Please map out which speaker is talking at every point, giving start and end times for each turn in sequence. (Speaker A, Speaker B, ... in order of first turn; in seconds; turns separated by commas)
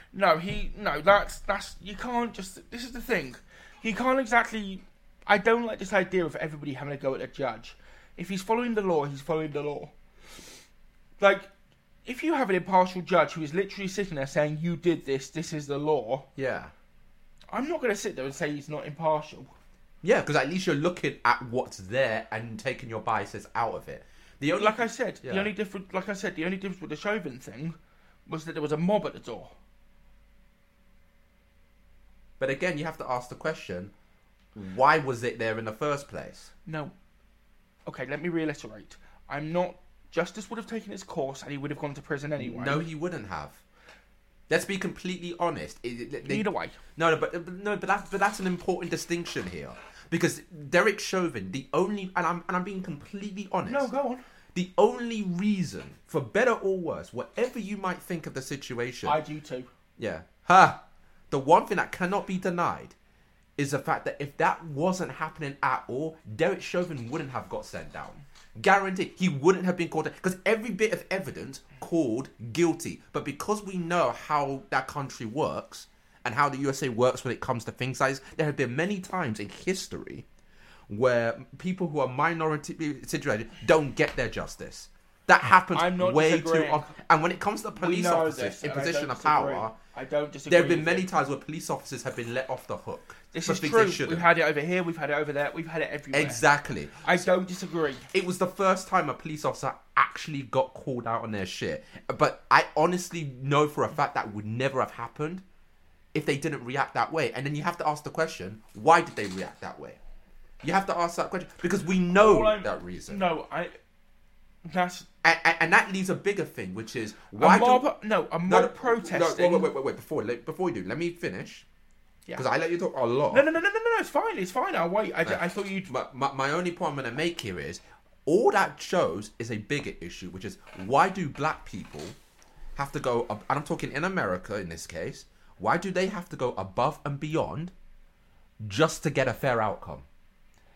Speaker A: 0.1-9.9, Speaker A: 11.2-11.5, Speaker A: 12.1-16.3, Speaker B: 16.4-16.7, Speaker A: 17.5-19.5, Speaker B: 20.0-25.5, Speaker A: 24.6-29.6, Speaker B: 32.4-33.9, Speaker B: 34.5-36.5, Speaker A: 36.7-36.9, Speaker A: 37.9-42.8, Speaker B: 42.4-43.6, Speaker B: 44.5-53.9, Speaker A: 46.2-46.8, Speaker A: 53.7-54.2, Speaker B: 54.5-59.2, Speaker A: 59.0-59.7, Speaker B: 60.0-60.8, Speaker B: 61.3-63.0, Speaker B: 63.6-80.2, Speaker B: 80.9-89.8, Speaker A: 85.7-86.9, Speaker A: 87.8-91.1, Speaker B: 90.5-94.3, Speaker A: 93.3-96.4, Speaker B: 96.1-97.3, Speaker A: 97.0-98.1, Speaker B: 98.1-105.4, Speaker B: 106.1-110.0, Speaker B: 110.6-113.2, Speaker A: 112.2-113.8, Speaker A: 114.7-115.1, Speaker B: 115.2-117.9, Speaker A: 117.4-119.7, Speaker B: 118.5-121.7, Speaker B: 122.4-123.5, Speaker A: 123.3-125.9, Speaker B: 125.3-132.2, Speaker B: 132.8-137.7, Speaker B: 138.6-140.1